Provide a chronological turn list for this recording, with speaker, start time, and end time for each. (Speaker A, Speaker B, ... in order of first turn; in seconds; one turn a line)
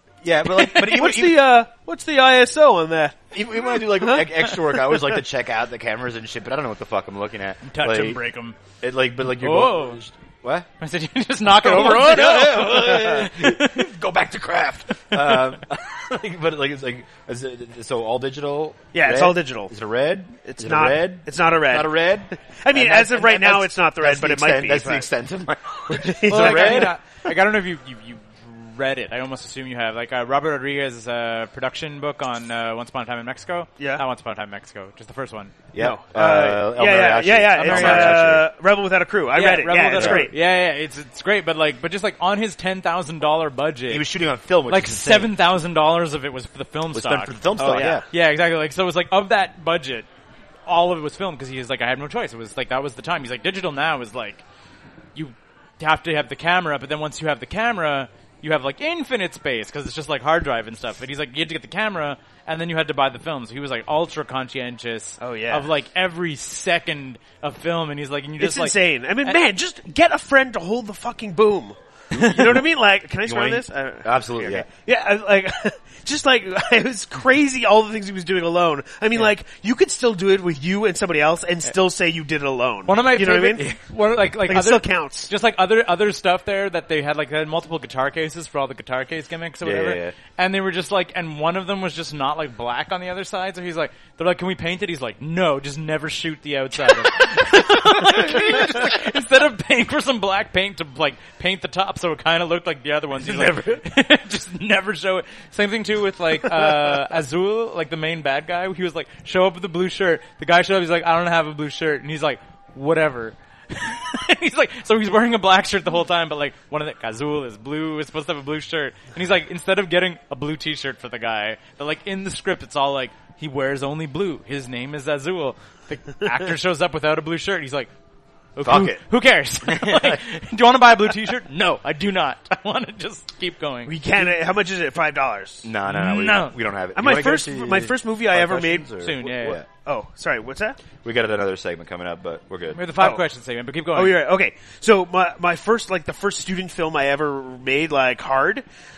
Speaker A: 0.2-1.5
Speaker B: 0.6-5.1
Speaker A: 3.3-8.2
Speaker C: 7.6-8.6
Speaker A: 8.8-10.7
Speaker C: 9.2-10.0
Speaker C: 10.8-13.8
Speaker A: 11.5-27.0
Speaker B: 18.9-19.7
Speaker B: 20.4-25.1
Speaker B: 25.9-27.0
Speaker C: 26.3-35.5
Speaker B: 33.8-34.0
Speaker A: 35.7-38.5
Speaker B: 35.8-40.3
Speaker C: 37.6-38.2
Speaker C: 39.3-44.1
Speaker A: 40.0-40.3
Speaker A: 43.9-45.4
Speaker C: 44.7-50.1
Speaker A: 46.9-48.0
Speaker B: 47.6-48.1
Speaker C: 50.7-54.4
Speaker C: 55.1-69.4
Speaker B: 65.2-65.7
Speaker B: 68.4-83.8
Speaker A: 73.2-74.7
Speaker C: 82.9-127.9
Speaker B: 84.5-85.3
Speaker A: 89.6-90.2
Speaker C: 128.6-134.3
Speaker A: 128.6-129.0
Speaker A: 129.6-130.2
Speaker B: 133.9-135.7
Speaker A: 135.6-139.7
Speaker C: 135.9-136.6
Speaker B: 137.0-138.9
Speaker C: 139.0-139.6
Speaker B: 139.7-140.8
Speaker A: 141.0-142.9
Speaker C: 142.7-144.2
Speaker B: 143.9-148.6